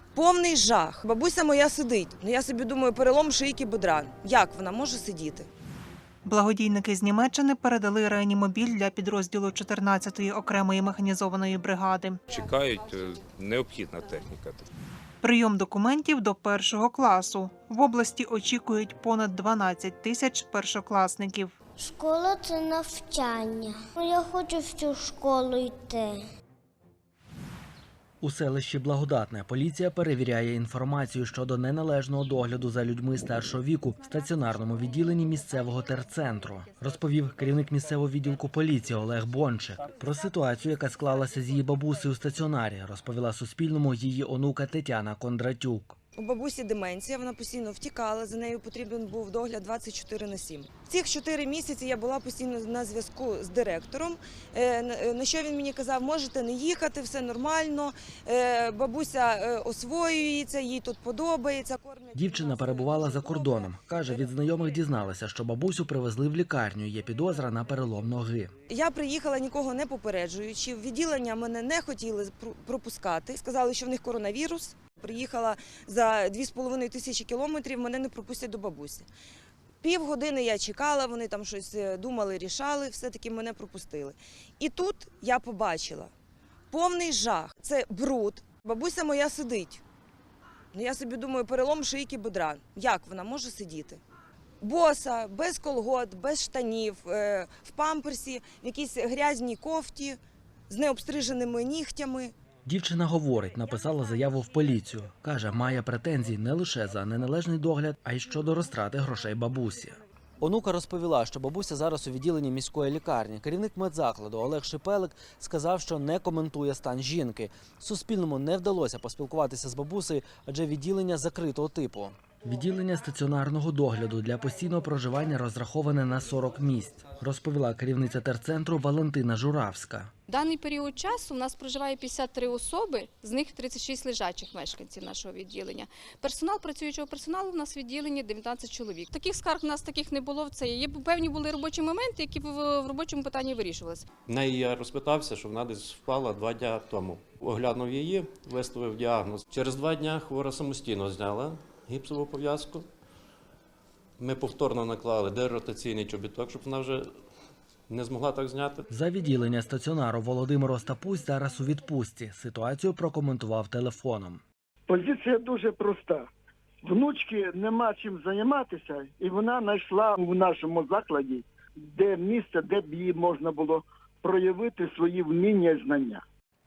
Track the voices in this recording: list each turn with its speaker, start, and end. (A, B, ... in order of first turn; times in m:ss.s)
0:00.2-0:05.5 A
0:06.3-0:12.2 B
0:12.3-0:14.6 C
0:15.2-0:21.5 B
0:21.8-0:26.2 D
0:28.2-0:46.0 E
0:46.2-1:03.7 A
1:02.1-1:08.5 E
1:08.7-1:19.1 A
1:19.8-1:26.1 A
1:26.7-1:29.8 A
1:30.7-1:34.0 A
1:34.6-1:42.3 A
1:42.7-2:10.1 E
2:10.3-2:24.0 F
2:24.3-2:32.9 G
2:34.2-2:37.1 G
2:37.9-2:38.9 G
2:38.9-2:44.4 E
2:44.9-2:46.2 H
2:46.9-2:56.2 H